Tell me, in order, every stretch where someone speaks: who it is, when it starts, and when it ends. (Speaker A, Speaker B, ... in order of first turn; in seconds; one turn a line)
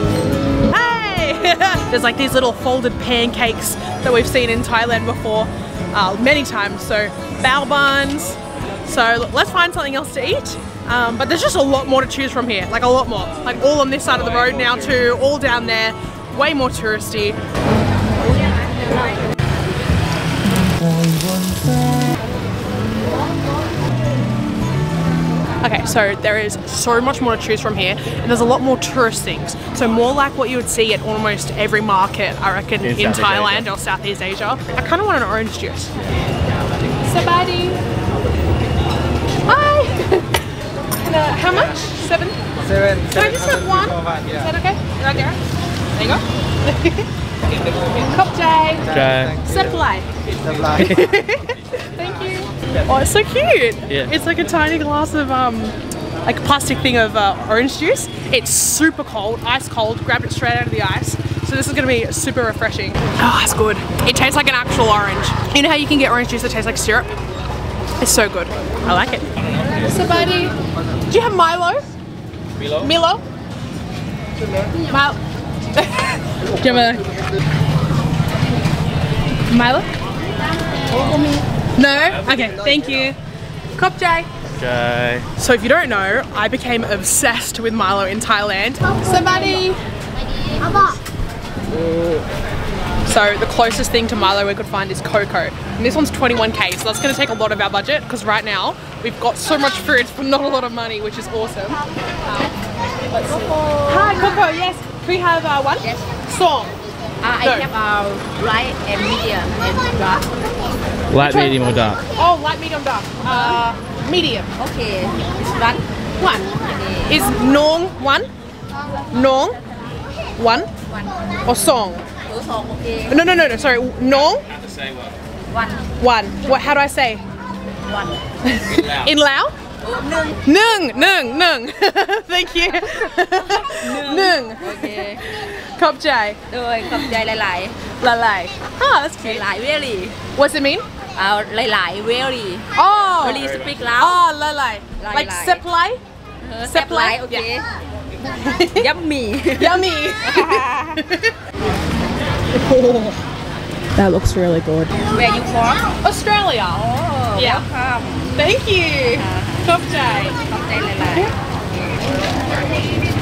Speaker A: 0.7-17.4
Speaker B: 14.2-15.0
Speaker A: 25.6-35.9
Speaker B: 32.8-33.7
Speaker A: 37.0-37.8
Speaker A: 39.5-40.4
Speaker A: 41.0-42.4
Speaker A: 43.1-45.4
Speaker A: 46.0-47.1
Speaker A: 48.0-48.9
Speaker B: 48.9-49.4
Speaker A: 49.4-50.1
Speaker A: 50.7-67.1
Speaker B: 50.8-51.1
Speaker A: 68.0-69.3
Speaker B: 69.3-70.2
Speaker A: 69.9-70.5
Speaker A: 71.1-71.9
Speaker B: 72.5-72.9
Speaker A: 72.8-73.2
Speaker A: 74.9-75.2
Speaker A: 75.8-77.1
Speaker A: 79.5-79.9
Speaker C: 81.0-81.4
Speaker A: 81.8-83.2
Speaker A: 83.8-84.3
Speaker B: 84.5-85.3
Speaker A: 85.4-89.8
Speaker A: 93.1-101.8
Speaker C: 103.1-104.4
Speaker A: 103.8-106.8
Speaker C: 107.2-110.6
Speaker A: 107.4-107.7
Speaker B: 111.1-112.0
Speaker A: 111.2-111.6
Speaker A: 112.1-114.5
Speaker C: 113.3-113.6
Speaker C: 114.6-115.8
Speaker A: 116.2-116.5
Speaker C: 116.4-117.2
Speaker A: 117.1-118.3
Speaker A: 119.1-119.6
Speaker A: 120.4-120.7
Speaker A: 121.5-122.1
Speaker C: 122.3-123.2
Speaker A: 123.1-124.5
Speaker B: 124.5-125.2
Speaker C: 125.5-125.9
Speaker A: 126.0-127.2
Speaker C: 127.9-128.2
Speaker A: 128.4-129.5
Speaker B: 128.6-129.2
Speaker C: 129.8-130.4
Speaker A: 130.4-137.2
Speaker C: 133.5-135.2
Speaker C: 136.5-137.9
Speaker A: 138.0-139.4
Speaker C: 139.2-140.2
Speaker A: 140.3-140.8
Speaker C: 141.2-144.2
Speaker A: 142.8-146.0
Speaker B: 143.2-143.8
Speaker C: 145.0-145.7
Speaker C: 146.4-147.7
Speaker A: 146.6-147.5
Speaker A: 148.3-148.9
Speaker C: 148.7-151.0
Speaker A: 149.5-151.4
Speaker A: 152.5-153.2
Speaker A: 153.9-155.0
Speaker C: 155.1-156.0
Speaker A: 156.0-157.7
Speaker C: 156.7-158.4
Speaker A: 158.3-160.4
Speaker C: 159.1-159.7
Speaker C: 160.4-162.1